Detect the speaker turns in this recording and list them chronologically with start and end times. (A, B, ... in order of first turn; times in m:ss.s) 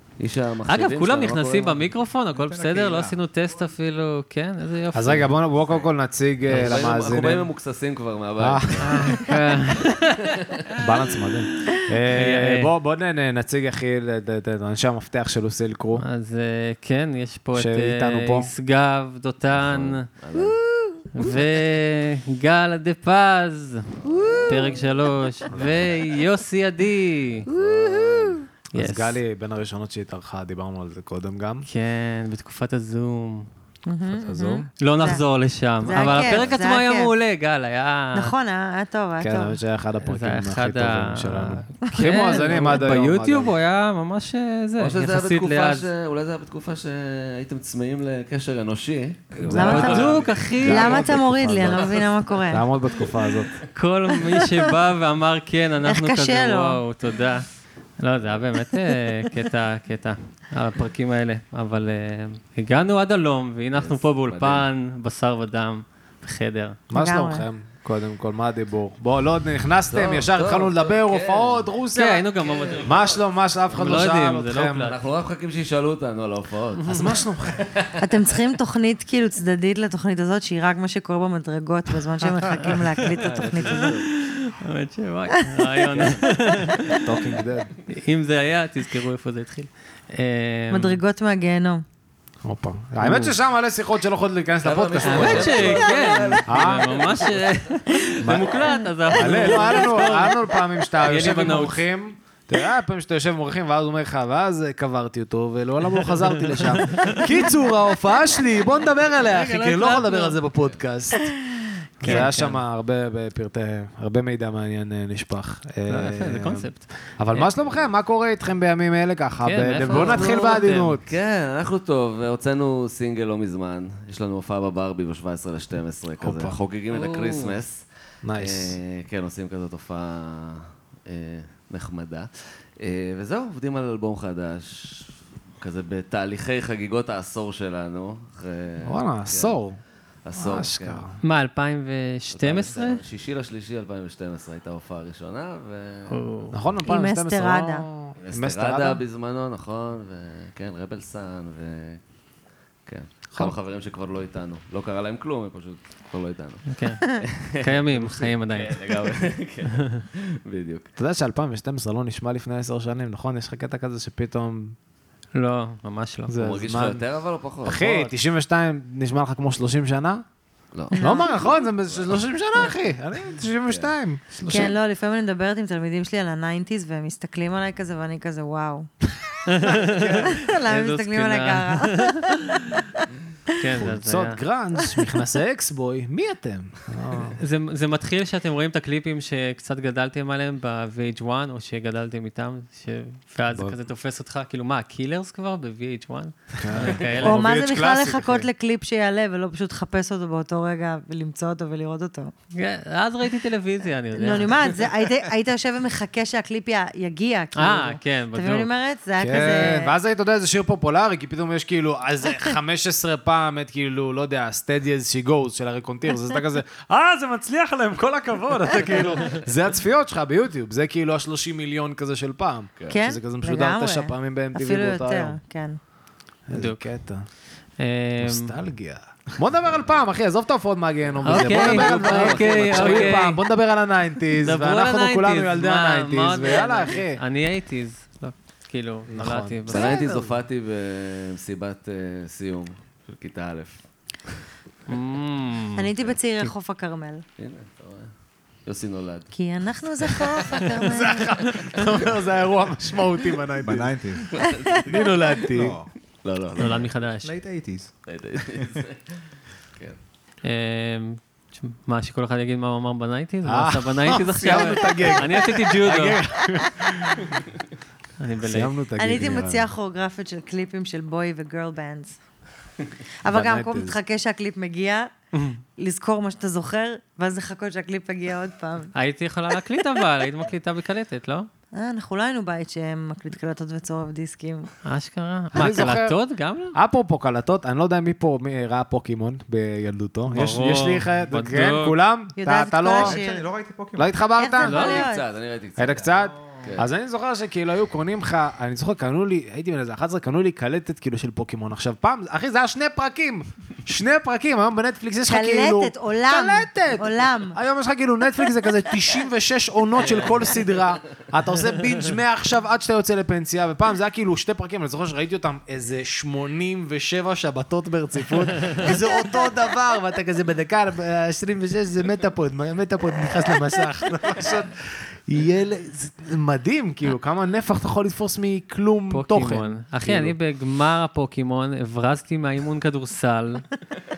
0:00.2-0:01.9 A
0:00.7-0:05.4 B
0:02.3-0:03.6 C
0:04.9-0:07.5 D
0:06.5-0:09.2 A
0:08.4-0:09.3 D
0:08.8-0:10.2 B
0:10.8-0:16.0 D
0:12.1-0:12.7 B
0:16.0-0:20.0 B
0:17.6-0:18.5 D
0:19.5-0:20.6 A
0:20.4-0:20.9 E
0:21.1-0:23.9 B
0:24.0-0:24.8 A
0:24.1-0:24.7 E
0:24.5-0:27.5 B
0:25.5-0:26.0 A
0:27.4-0:28.4 A
0:27.6-0:28.4 E
0:28.7-0:29.2 B
0:28.7-0:31.7 D
0:31.7-0:33.5 B
0:33.9-0:35.2 E
0:34.1-0:34.7 D
0:34.8-0:38.3 B
0:35.8-0:37.1 E
0:36.0-0:36.4 A
0:38.1-0:39.6 E
0:39.2-0:43.5 D
0:40.0-0:45.9 B
0:44.8-0:52.4 A
0:49.4-0:51.9 D
0:49.5-0:52.7 E
0:49.5-0:51.0 B
0:52.5-0:53.6 D
0:53.7-0:57.5 B
0:55.9-0:56.8 E
0:58.0-1:06.8 B
1:03.8-1:04.7 A
1:06.9-1:12.3 D
1:06.9-1:07.4 E
1:09.9-1:11.7 A
1:12.0-1:13.0 B
1:12.4-1:13.2 A
1:12.8-1:14.9 D
1:13.7-1:15.0 B
1:13.8-1:14.1 A
1:14.8-1:18.0 A
1:16.9-1:17.7 D
1:18.0-1:23.9 E
1:23.1-1:24.1 A
1:23.8-1:27.0 B
1:27.0-1:27.7 D
1:27.9-1:31.0 B
1:30.7-1:31.8 E
1:32.4-1:35.9 D
1:33.0-1:33.3 B
1:34.6-1:37.7 A
1:35.0-1:41.8 B
1:36.5-1:36.9 D
1:38.2-1:51.3 D
1:46.2-1:47.2 B
1:49.2-1:50.4 B
1:52.0-1:52.6 B
1:52.0-2:01.0 D
1:55.9-1:57.5 B
1:59.4-2:01.0 B
1:59.9-2:07.9 A
2:06.2-2:06.6 D
2:06.9-2:07.6 B
2:08.2-2:08.8 D
2:08.4-2:19.6 A
2:18.8-2:19.8 D
2:20.2-2:21.0 A
2:20.4-2:21.2 D
2:21.2-2:23.0 B
2:22.3-2:26.2 A
2:26.1-2:26.6 B
2:26.5-2:29.0 D
2:26.8-2:27.8 E
2:28.2-2:32.0 A
2:32.9-2:40.9 A
2:36.7-2:37.0 B
2:37.6-2:38.8 B
2:41.0-2:44.8 D
2:45.4-2:46.4 B
2:46.3-2:47.0 D
2:46.4-2:48.0 A
2:47.6-2:50.2 D
2:50.7-2:52.2 A
2:50.9-2:54.7 D
2:50.9-2:51.4 E
2:53.7-2:53.9 A
2:54.5-2:58.9 E
2:59.5-3:02.3 B
2:59.9-3:00.4 D
3:00.0-3:02.8 E
3:03.6-3:04.4 B
3:03.8-3:07.4 D
3:07.4-3:17.4 B
3:16.6-3:18.5 D
3:17.2-3:22.3 E
3:22.5-3:24.6 B
3:24.1-3:29.9 E
3:27.6-3:28.7 B
3:29.2-3:45.4 D
3:42.9-3:45.8 E
3:46.5-3:47.2 D
3:46.5-3:46.8 B
3:47.8-3:48.5 B
3:48.2-3:57.2 D
3:51.2-3:53.3 A
3:51.2-3:53.4 B
3:54.4-4:00.0 B
3:59.1-4:00.3 D
3:59.7-4:03.8 A
4:04.9-4:05.9 B
4:05.8-4:07.2 E
4:07.4-4:08.1 A
4:08.7-4:09.3 A
4:09.3-4:11.4 E
4:10.8-4:14.0 D
4:13.6-4:14.4 C
4:14.3-4:15.4 A
4:14.9-4:15.8 D
4:15.5-4:15.9 C
4:16.2-4:16.9 A
4:16.6-4:17.3 B
4:17.2-4:17.9 C
4:18.1-4:19.2 A
4:20.4-4:26.2 B
4:23.5-4:27.3 D
4:28.2-4:28.7 B
4:28.4-4:29.7 D
4:29.0-4:32.2 E
4:33.2-4:35.1 E
4:33.3-4:34.0 D
4:35.3-4:35.6 B
4:35.8-4:38.9 E
4:39.0-4:41.5 B
4:41.7-4:44.7 E
4:44.8-4:46.8 B
4:45.5-4:46.2 D
4:46.7-4:53.2 D
4:50.3-4:52.0 B
4:52.4-4:53.5 E
4:52.9-4:54.2 C
4:54.0-4:55.0 D
4:54.4-4:55.2 E
4:54.7-4:56.9 A
4:54.7-4:55.0 B
4:55.8-5:30.4 D
5:05.3-5:07.6 E
5:10.1-5:10.5 A
5:29.1-5:33.6 B